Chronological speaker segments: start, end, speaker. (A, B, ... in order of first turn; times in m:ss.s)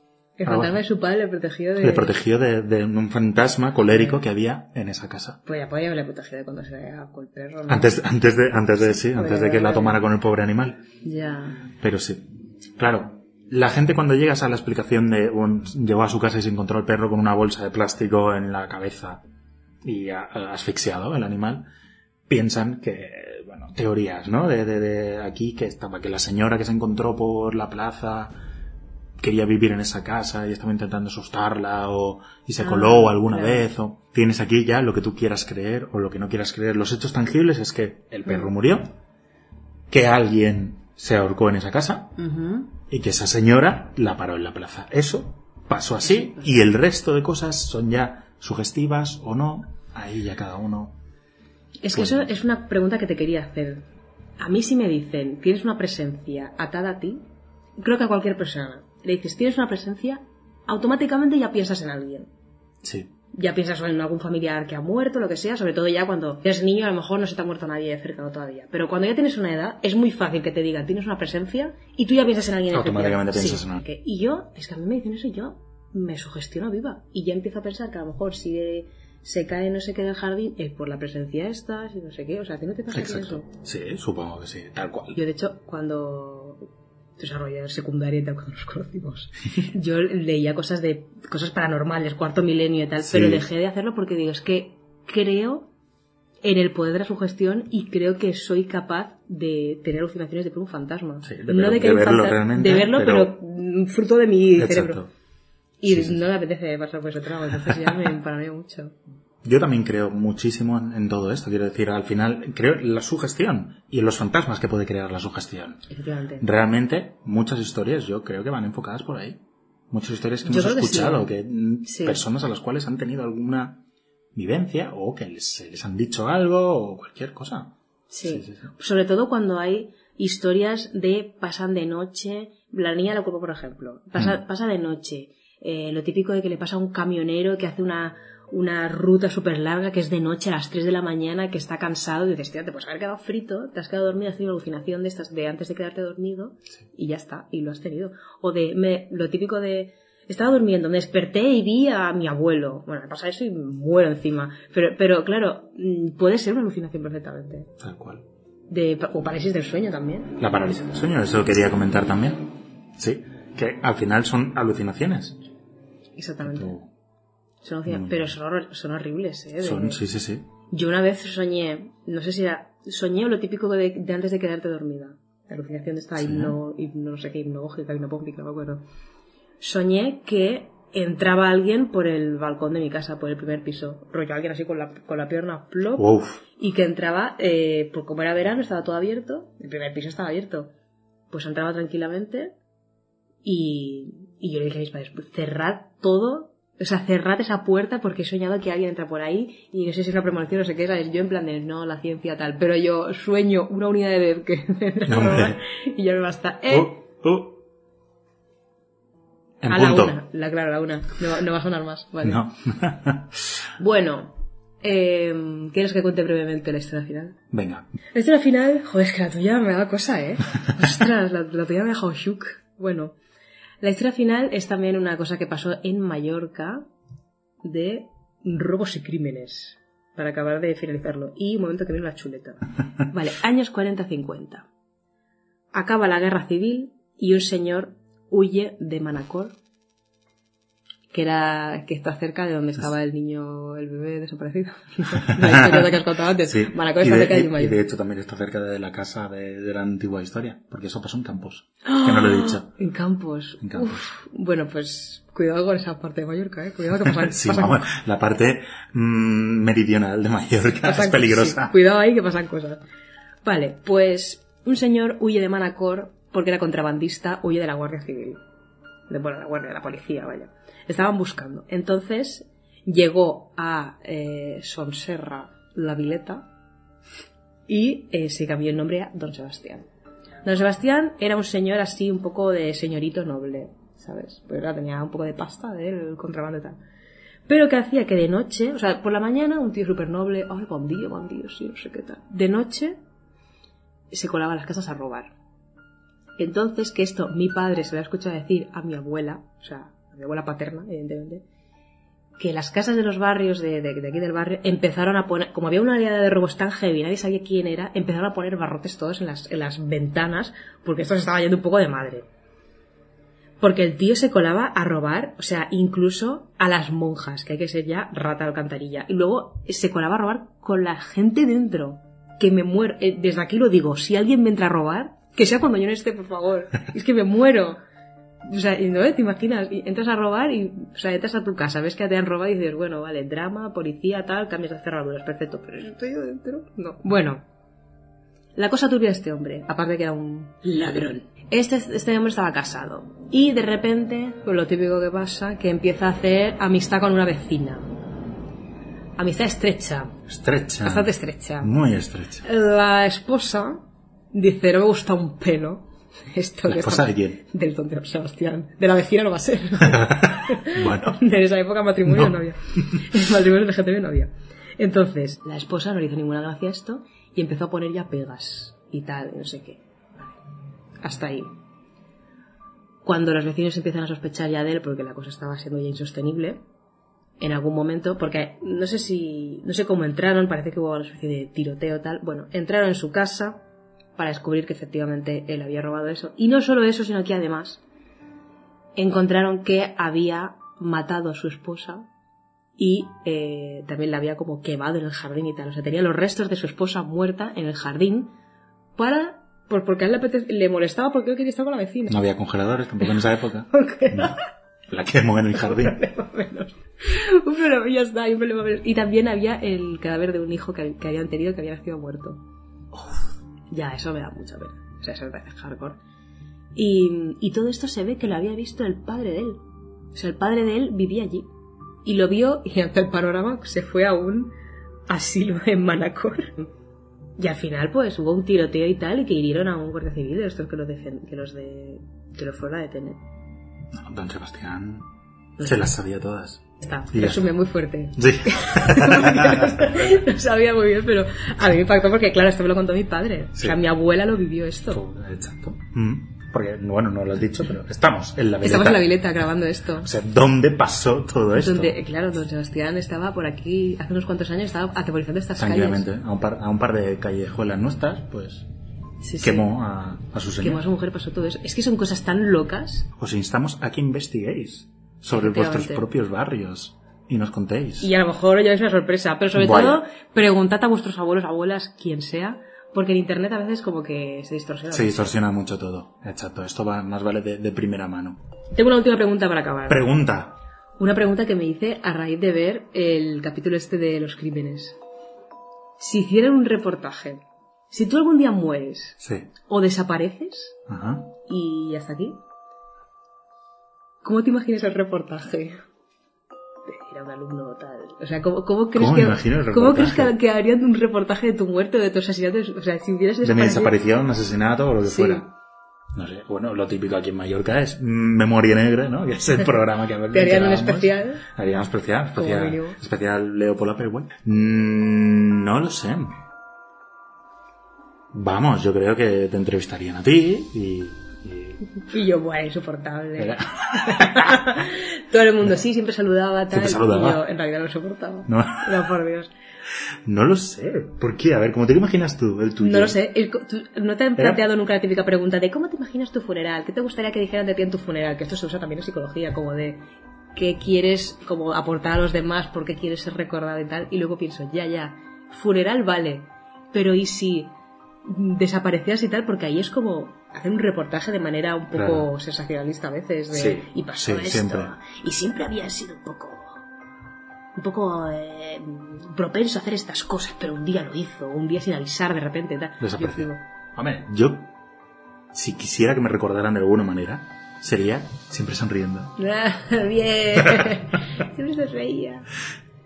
0:00.4-0:02.1 A
0:00.4-0:00.8 B
0:01.8-0:05.4 B
0:03.9-0:04.2 A
0:05.4-0:08.0 A
0:07.7-0:10.8 B
0:08.9-0:10.0 A
0:11.0-0:11.6 A
0:11.7-0:19.2 B
0:19.8-0:21.6 B
0:22.3-0:28.4 B
0:29.2-0:38.9 B
0:32.6-0:33.6 A
0:39.9-0:42.2 B
0:42.2-0:42.7 A
0:42.9-0:51.0 B
0:46.0-0:46.5 A
0:51.8-0:53.8 A
0:51.9-0:52.3 B
0:54.4-0:57.2 A
0:57.8-1:02.3 A
1:02.8-1:03.1 B
1:03.3-1:23.4 A
1:12.7-1:13.8 B
1:22.9-1:25.2 B
1:25.1-1:26.6 A
1:27.2-1:35.7 A
1:33.0-1:33.4 B
1:36.4-1:45.0 A
1:41.2-1:43.4 B
1:44.6-1:45.1 B
1:45.8-1:49.0 A
1:45.9-1:46.2 B
1:47.7-1:48.0 B
1:49.4-1:55.8 B
1:55.9-1:56.4 A
1:56.4-2:03.8 B
2:00.4-2:01.3 A
2:01.8-2:02.2 A
2:04.3-2:08.7 B
2:08.1-2:37.7 A
2:37.8-2:38.2 B
2:38.7-2:40.4 A
2:40.4-2:45.4 B
2:46.2-2:46.8 A
2:46.4-2:46.9 B
2:47.6-2:50.0 A
2:47.9-2:48.3 B
2:49.6-2:50.5 B
2:50.7-2:58.8 A
2:56.2-2:56.6 B
2:59.6-3:10.7 A
3:06.0-3:06.4 B
3:11.3-3:12.5 A
3:13.4-3:27.0 A
3:25.1-3:25.6 B
3:26.7-3:27.6 B
3:29.6-3:30.2 B
3:29.7-3:32.4 A
3:32.2-3:33.4 B
3:33.8-3:37.4 A
3:37.5-3:37.9 B
3:38.1-3:43.2 A
3:43.8-3:46.8 A
3:47.6-3:54.7 A
3:55.7-3:59.6 A
4:01.1-4:07.8 A
4:05.2-4:12.7 B
4:11.8-4:17.9 A
4:13.6-4:14.0 B
4:17.0-4:21.7 B
4:20.8-4:22.8 A
4:23.4-4:28.4 A
4:29.1-4:36.4 A
4:37.7-4:39.8 A
4:40.4-4:46.8 A
4:47.5-4:53.0 A
4:54.1-4:55.3 A
4:56.4-5:01.4 A
5:02.4-5:12.2 A
5:13.6-5:27.8 A
5:28.5-5:37.4 A
5:38.6-5:47.9 A
5:49.2-5:50.2 A
5:50.3-5:52.5 B
5:50.8-5:51.7 A
5:52.4-6:10.3 A
5:56.7-5:57.4 B
5:59.9-6:01.2 B
6:02.0-6:02.3 B
6:11.0-6:11.6 A
6:13.0-6:16.6 A
6:17.4-6:23.6 A
6:24.2-6:27.8 A
6:29.0-6:32.1 A
6:32.8-6:38.3 A
6:39.0-6:42.2 A
6:42.1-6:44.4 B
6:43.7-6:44.4 A
6:44.9-6:46.0 B
6:45.5-6:52.4 A
6:53.7-6:56.0 A
6:56.7-6:59.6 A
7:00.1-7:01.5 A
7:02.0-7:04.5 A
7:05.1-7:06.7 A
7:07.4-7:13.2 A
7:13.9-7:17.5 B
7:16.8-7:25.0 A
7:18.2-7:20.1 B
7:24.9-7:29.1 B
7:28.6-7:30.1 A
7:30.0-7:32.0 B
7:31.5-7:36.1 A
7:35.6-7:38.7 B
7:39.2-7:39.7 A
7:39.4-7:40.8 B
7:40.6-7:43.1 A
7:43.2-7:48.1 B
7:45.3-7:46.0 A
7:48.0-7:55.4 A
7:49.5-7:50.0 B
7:54.9-7:58.4 B
7:58.7-8:00.0 A
7:59.9-8:00.6 B
8:01.0-8:05.0 A
8:06.0-8:10.8 A
8:09.2-8:09.5 B
8:10.9-8:11.3 B
8:11.4-8:12.4 A
8:14.2-8:15.8 A
8:16.9-8:23.9 A
8:18.9-8:20.4 B
8:23.4-8:25.5 B
8:25.0-8:25.5 A
8:26.1-8:36.4 B
8:30.3-8:31.4 A
8:32.4-8:33.0 A
8:38.3-8:41.8 B
8:42.0-8:49.5 A
8:43.4-8:44.7 B
8:46.7-8:47.4 B
8:48.5-8:49.1 B
8:50.2-8:53.2 B
8:52.8-9:16.8 A
9:11.9-9:12.3 B
9:13.5-9:15.0 B
9:17.8-9:23.6 A
9:23.0-9:24.7 B
9:25.5-9:29.4 B
9:29.4-9:32.5 A
9:30.6-9:31.0 B